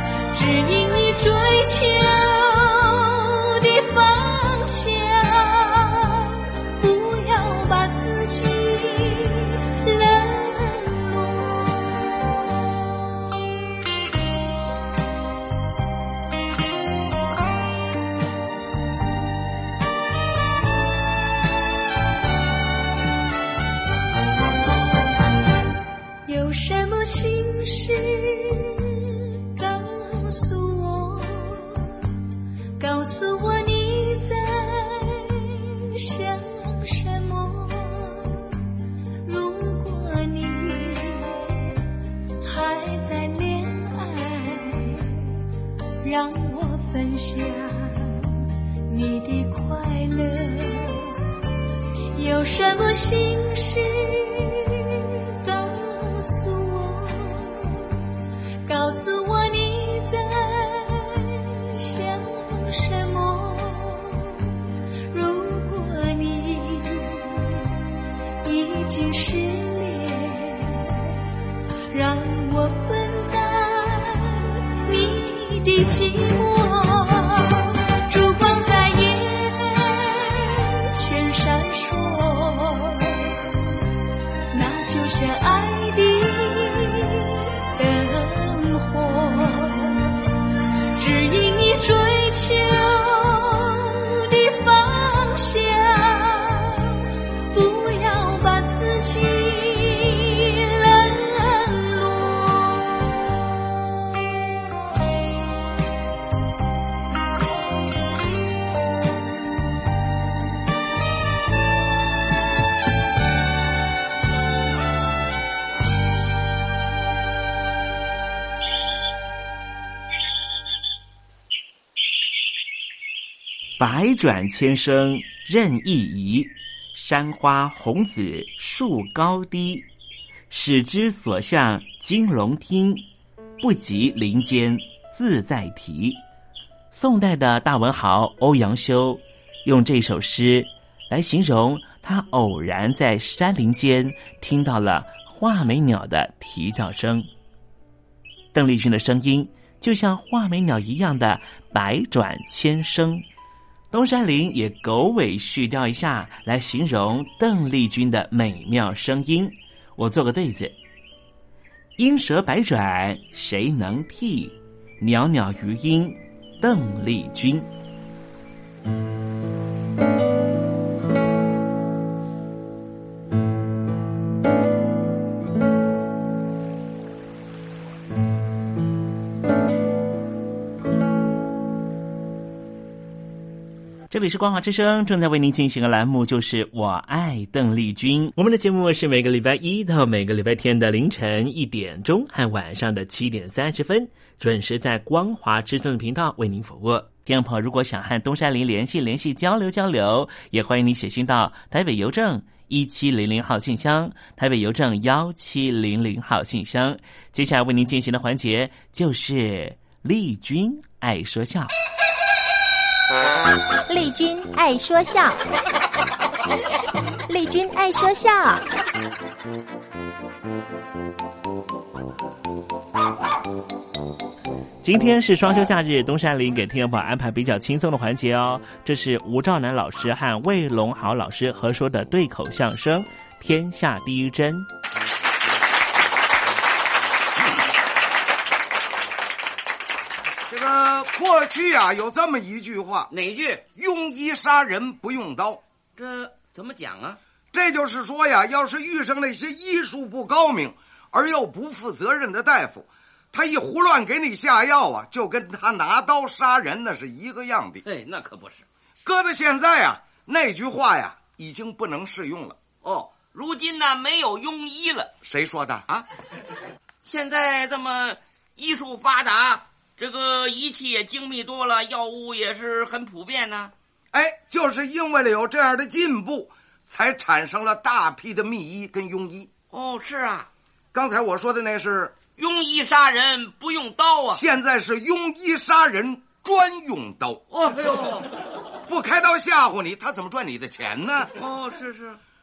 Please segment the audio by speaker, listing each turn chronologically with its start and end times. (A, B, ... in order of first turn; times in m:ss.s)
0:00.3-0:12.2 A
0:26.2-0:32.0 A
0:32.8-0:38.6 A
0:39.2-0:41.8 A
0:42.4-0:45.4 A
0:46.0-0:51.2 A
0:52.1-0:58.0 A
0:58.6-1:04.5 A
1:05.1-1:07.7 A
1:08.4-1:11.2 A
1:11.9-1:23.5 A
1:24.5-1:30.0 A
1:30.9-1:43.0 A
2:03.8-2:09.9 B
2:10.5-2:13.0 B
2:13.6-2:16.2 B
2:16.9-2:27.3 B
2:28.5-2:33.2 B
2:33.9-2:40.7 B
2:42.0-2:47.7 B
3:04.1-3:31.7 B
3:33.9-3:35.4 C
3:37.3-3:38.6 C
3:44.8-3:54.7 B
4:00.5-4:03.1 D
4:03.1-4:03.6 E
4:03.7-4:05.6 D
4:06.0-4:07.2 E
4:07.5-4:17.8 D
4:17.8-4:18.6 E
4:19.0-4:22.6 D
4:22.8-4:25.1 E
4:25.2-4:25.9 D
4:27.0-4:33.7 E
4:34.1-4:39.5 D
4:39.7-4:40.5 E
4:40.9-4:42.2 D
4:42.4-4:44.4 E
4:44.3-4:47.8 D
4:47.6-4:48.3 E
4:48.9-4:51.4 D
4:51.4-4:52.2 E